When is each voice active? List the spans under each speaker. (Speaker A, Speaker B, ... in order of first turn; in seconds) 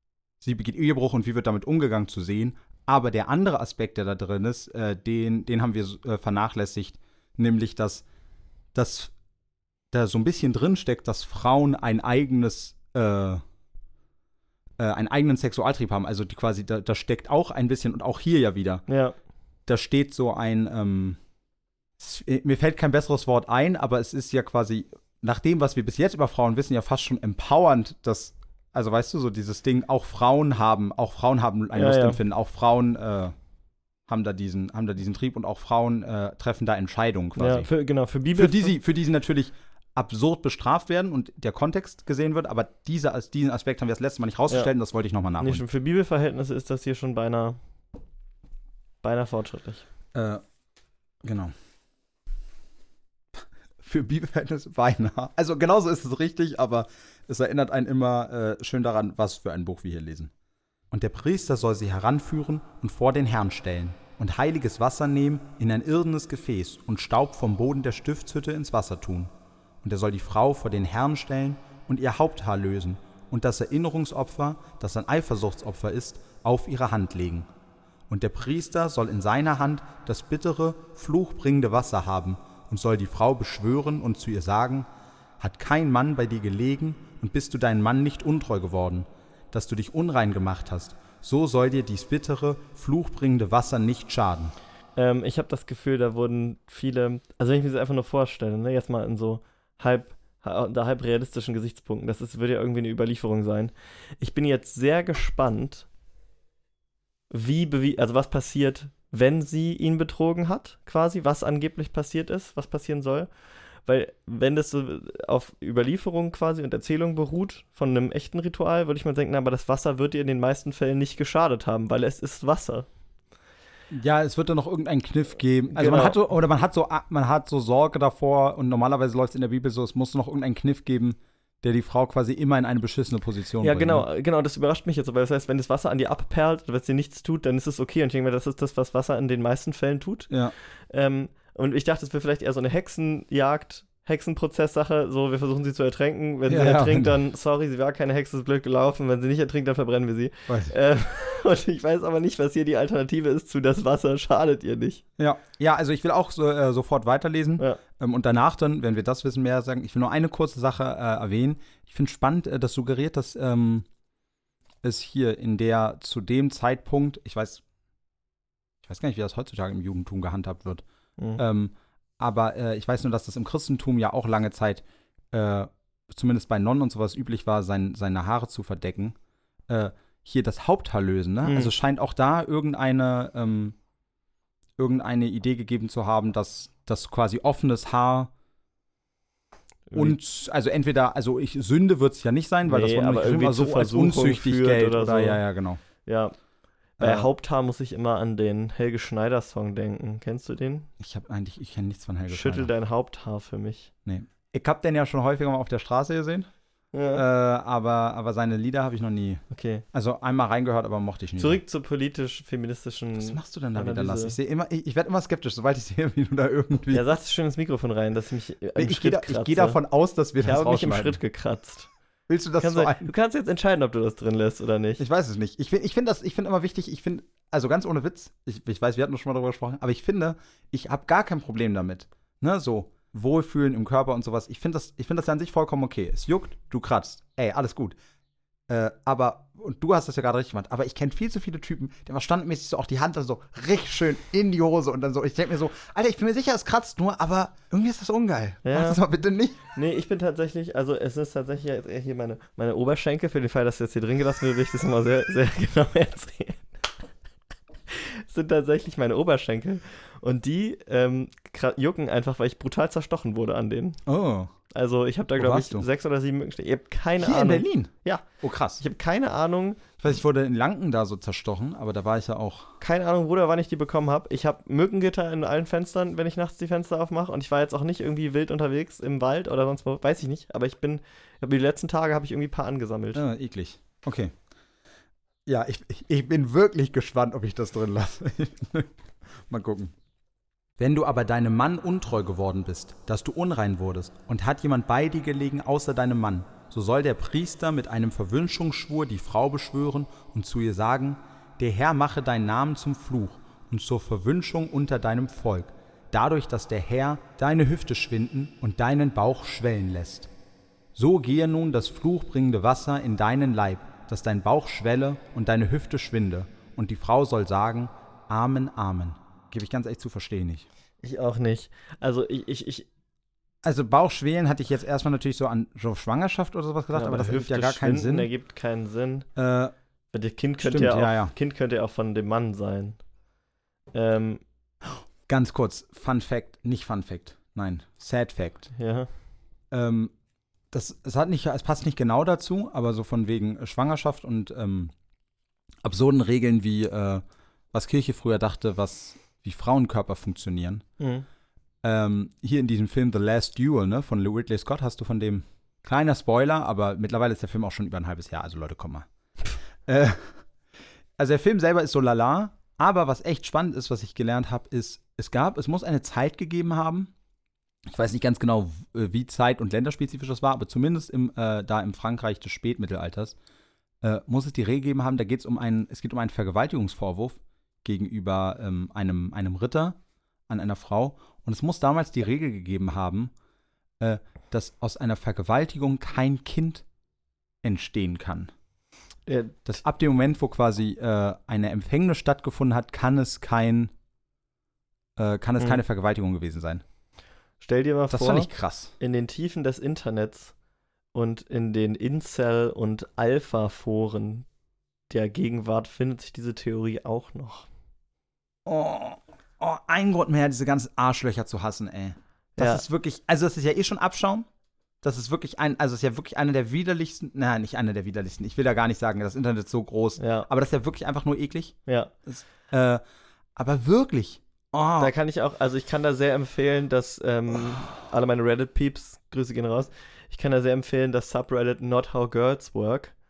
Speaker A: 0.4-8.0, 8.7-9.1, 9.9-13.4, 14.8-18.8, 19.7-21.2, 22.0-33.4, 34.1-37.7, 38.4-45.6, 50.1-50.4, 51.2-51.5, 53.8-60.3, 60.9-69.3, 69.8-77.5, 78.1-84.9, 85.4-94.5, 123.9-134.0, 140.3-140.6, 146.5-147.2, 150.5-150.7, 155.2-163.9, 164.8-167.6, 168.8-170.8, 171.4-179.2, 179.7-183.8, 184.8-188.3, 189.9-195.8, 197.0-197.3, 201.0-202.7, 204.1-206.5, 207.1-211.6, 213.2-217.1, 218.8-221.2, 222.3-223.1, 225.0-237.9, 238.7-249.6, 264.1-264.5, 265.4-265.9, 267.2-268.8, 270.0-272.8, 283.1-284.3, 285.4-288.9, 289.5-289.9, 290.8-310.3, 310.9-320.7, 323.6-328.3, 329.4-329.7, 330.6-331.3, 335.3-338.7, 339.7-340.1, 340.7-344.9, 345.8-350.8, 351.8-359.1, 359.9-360.5, 361.2-367.1, 367.9-373.4, 374.0-380.0, 380.5-383.3, 384.0-386.9, 387.6-388.5, 389.6-393.9, 395.1-396.8, 398.1-398.9, 408.6-414.4, 415.0-423.0, 423.6-425.1
Speaker B: 18.9-19.1, 31.7-32.2, 37.4-38.7, 45.4-47.6, 49.0-49.8, 95.0-105.9, 107.3-113.3, 113.9-122.9, 125.7-126.2, 133.6-155.0, 181.4-181.7, 189.9-190.2, 192.6-195.4, 196.0-196.3, 197.0-200.9, 202.3-203.9, 206.9-207.2, 209.5-209.8, 211.4-214.4, 216.9-219.8, 220.4-221.9, 222.6-225.0, 248.6-249.0, 249.7-256.7, 257.9-264.0, 264.7-268.3, 268.8-269.8, 272.8-283.2, 321.0-322.9, 326.9-329.3, 330.1-333.0, 333.9-334.4, 338.8-339.1, 351.0-351.3, 389.3-389.8, 397.6-400.5, 401.1-404.4, 405.1-407.7, 412.6-412.8, 420.2-420.5, 421.9-422.1, 425.0-433.1